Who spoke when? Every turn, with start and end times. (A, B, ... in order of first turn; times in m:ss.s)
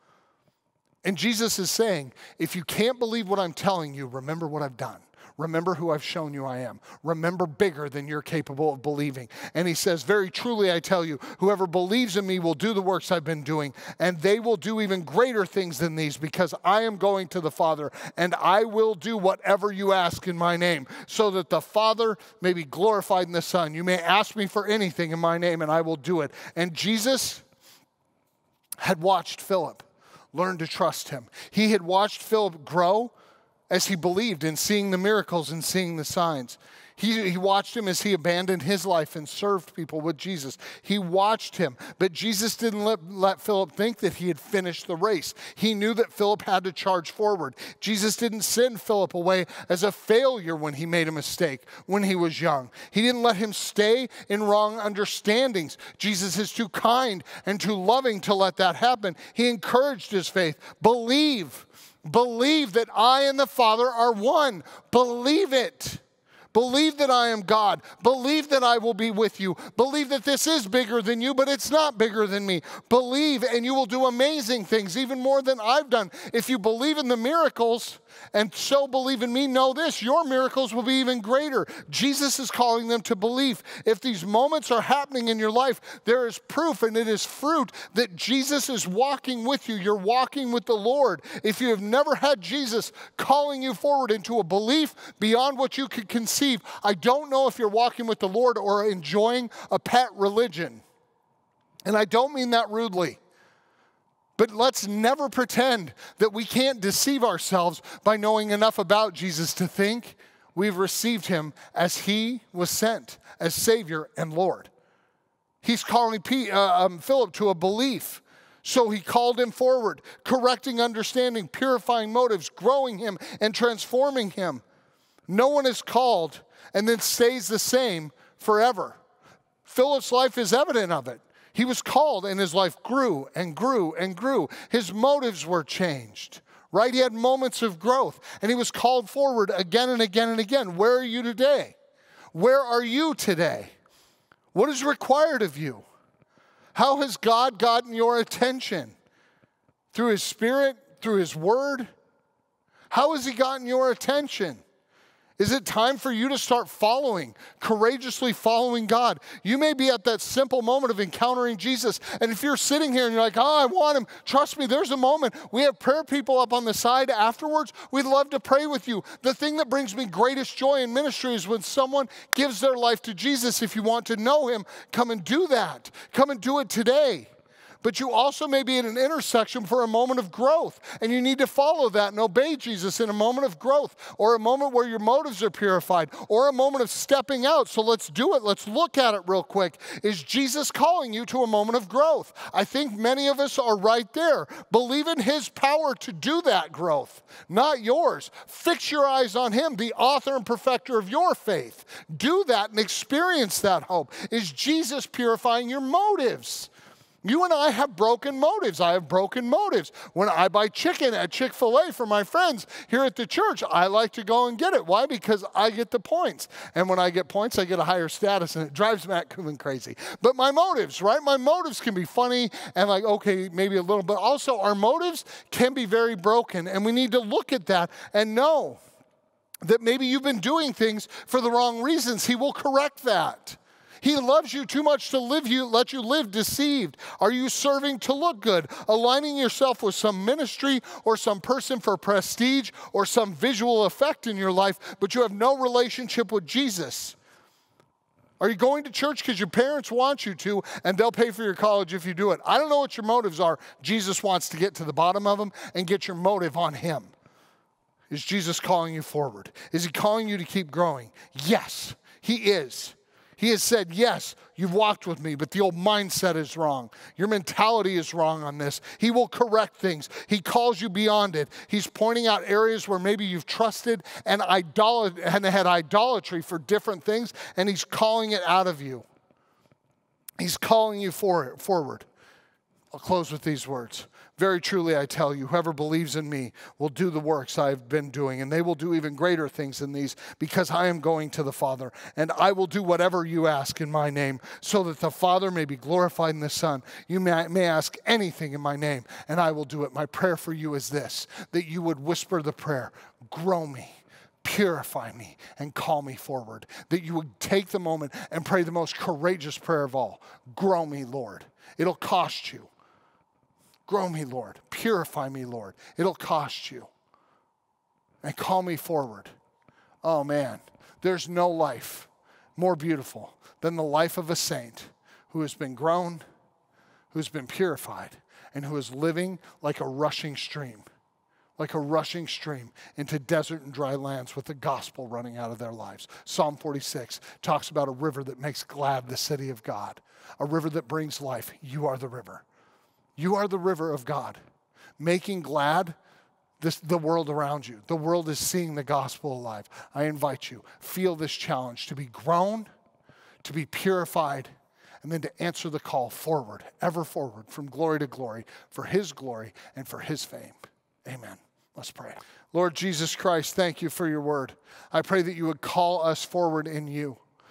0:01.0-0:27.4 A
0:28.8-0:33.1 A
0:33.7-1:06.0 A
1:06.5-1:40.8 A
1:41.8-1:43.2 A
1:44.4-1:54.7 A
1:55.6-2:04.6 A
2:05.3-2:09.0 A
2:09.6-2:21.7 A
2:22.3-2:23.7 A
2:24.5-2:25.8 A
2:26.7-2:28.9 A
2:29.9-2:31.9 A
2:32.9-2:34.6 A
2:35.4-2:57.3 A
2:57.8-3:26.7 A
3:27.2-3:48.8 A
3:49.6-4:07.2 A
4:08.4-4:17.1 A
4:18.1-4:39.0 A
4:40.4-4:42.1 A
4:42.9-5:12.7 A
5:13.8-5:16.9 A
5:18.2-5:19.3 A
5:20.0-5:26.2 A
5:27.1-5:30.8 A
5:31.6-5:42.4 A
5:43.2-5:44.4 A
5:45.0-5:46.0 A
5:46.6-5:52.7 A
5:53.4-6:07.2 A